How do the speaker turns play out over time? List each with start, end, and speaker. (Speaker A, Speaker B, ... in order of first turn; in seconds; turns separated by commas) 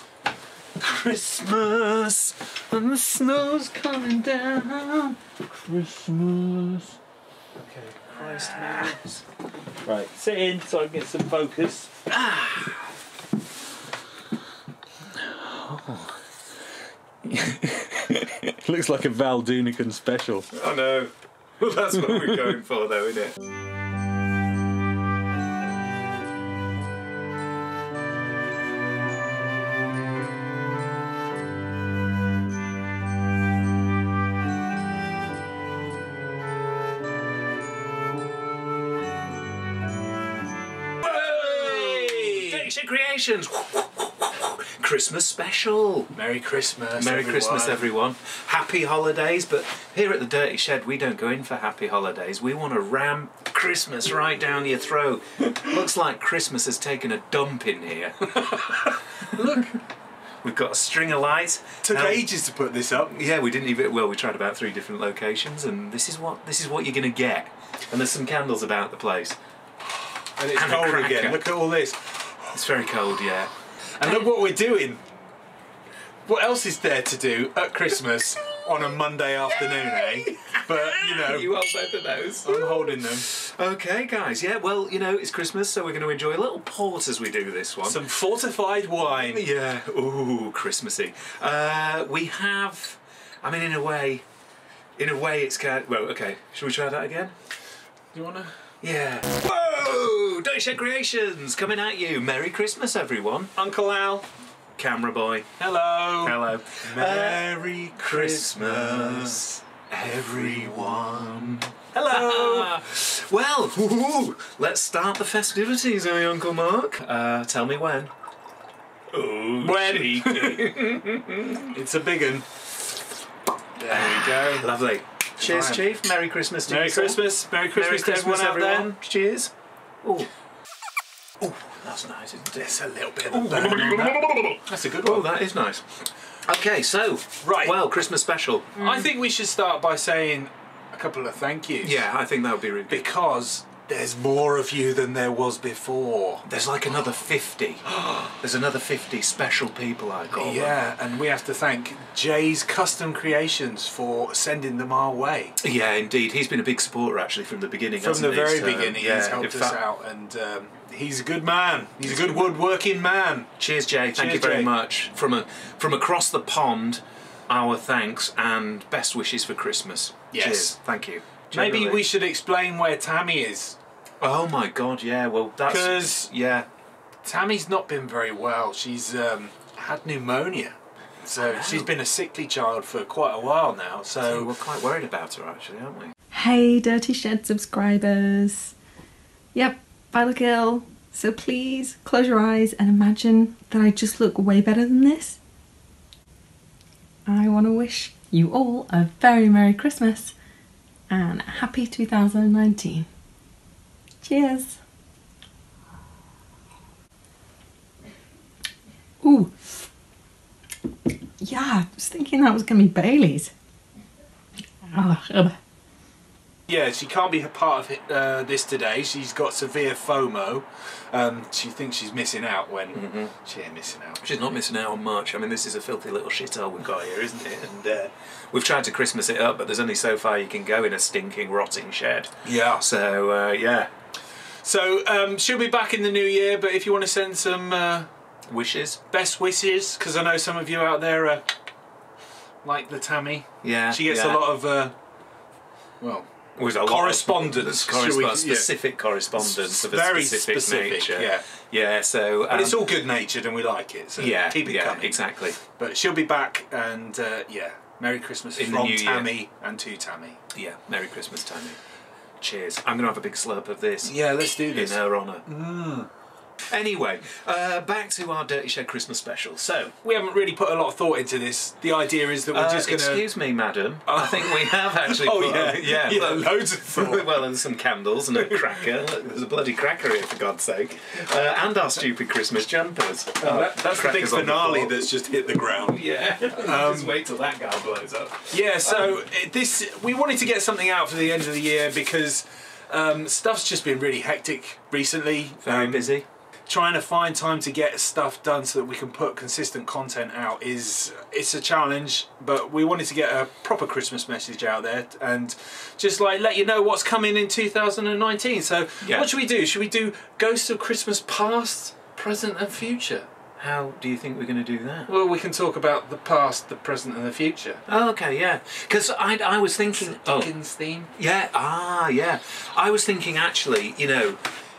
Speaker A: 0.8-1.9, Speaker B: 1.6-2.3, Speaker A: 2.7-7.0, Speaker B: 7.7-9.2, Speaker A: 7.7-9.0, Speaker A: 9.8-11.9, Speaker B: 12.1-12.8, Speaker A: 15.2-16.2, Speaker A: 17.2-20.5, Speaker B: 20.5-23.4, Speaker A: 21.9-22.6, Speaker B: 41.0-46.1, Speaker A: 41.0-42.6, Speaker A: 46.1-47.9, Speaker B: 47.0-59.0, Speaker A: 58.4-59.8, Speaker B: 60.4-62.3, Speaker A: 61.8-63.2, Speaker B: 63.1-69.4, Speaker A: 70.4-72.5, Speaker B: 70.5-71.4, Speaker B: 72.5-73.5, Speaker A: 74.0-75.0, Speaker A: 76.3-81.5, Speaker B: 79.7-88.0, Speaker A: 82.4-83.3, Speaker A: 87.8-89.5, Speaker B: 89.2-94.2, Speaker B: 95.0-97.3, Speaker A: 98.1-98.5, Speaker B: 98.8-103.5, Speaker A: 103.6-104.3, Speaker B: 104.8-105.5, Speaker A: 105.6-109.6, Speaker B: 106.2-118.1, Speaker A: 110.1-112.7, Speaker B: 119.1-121.7, Speaker A: 119.6-120.8, Speaker A: 121.7-122.6, Speaker A: 123.8-124.7, Speaker B: 123.9-129.5, Speaker A: 125.4-125.8, Speaker A: 126.7-128.9, Speaker B: 130.0-130.3, Speaker B: 131.4-132.7, Speaker A: 132.5-135.3, Speaker B: 133.3-139.1, Speaker A: 137.4-137.8, Speaker A: 138.8-142.1, Speaker B: 141.8-143.1, Speaker A: 142.9-146.5, Speaker B: 146.5-150.8, Speaker A: 147.9-148.4, Speaker A: 150.3-155.6, Speaker B: 155.6-159.8, Speaker A: 158.0-163.5, Speaker B: 162.0-162.6, Speaker B: 163.6-172.1, Speaker A: 164.2-164.7, Speaker A: 170.3-170.8, Speaker A: 171.5-173.8, Speaker B: 174.2-176.7, Speaker A: 175.7-176.3, Speaker A: 177.2-184.5, Speaker B: 181.4-181.9, Speaker B: 184.2-186.1, Speaker C: 186.3-188.7, Speaker C: 189.5-195.4, Speaker C: 197.3-200.3, Speaker C: 201.1-203.1, Speaker C: 204.2-204.8, Speaker C: 209.2-209.5, Speaker C: 211.4-213.5, Speaker C: 214.9-215.6, Speaker A: 216.7-224.2, Speaker B: 222.9-223.3, Speaker B: 224.2-233.9, Speaker A: 232.4-232.8, Speaker A: 234.6-238.1, Speaker B: 238.5-239.0, Speaker A: 239.1-241.6, Speaker A: 242.6-244.9, Speaker B: 243.6-244.4, Speaker A: 246.0-248.7, Speaker B: 246.6-252.8, Speaker A: 249.3-251.5, Speaker A: 252.5-260.4, Speaker B: 254.2-255.6, Speaker B: 258.6-259.3, Speaker B: 260.5-261.8, Speaker B: 262.4-264.2, Speaker A: 264.0-266.1, Speaker B: 264.7-265.5, Speaker B: 266.7-269.9, Speaker A: 270.0-273.2, Speaker B: 272.5-285.1, Speaker A: 274.1-277.3, Speaker A: 283.4-287.1, Speaker B: 285.9-289.2, Speaker A: 288.5-296.1, Speaker B: 295.6-296.3, Speaker A: 296.7-313.3, Speaker B: 309.0-309.3, Speaker B: 313.6-315.1, Speaker A: 315.1-317.8, Speaker B: 317.9-320.5, Speaker A: 319.9-321.1, Speaker B: 321.2-324.4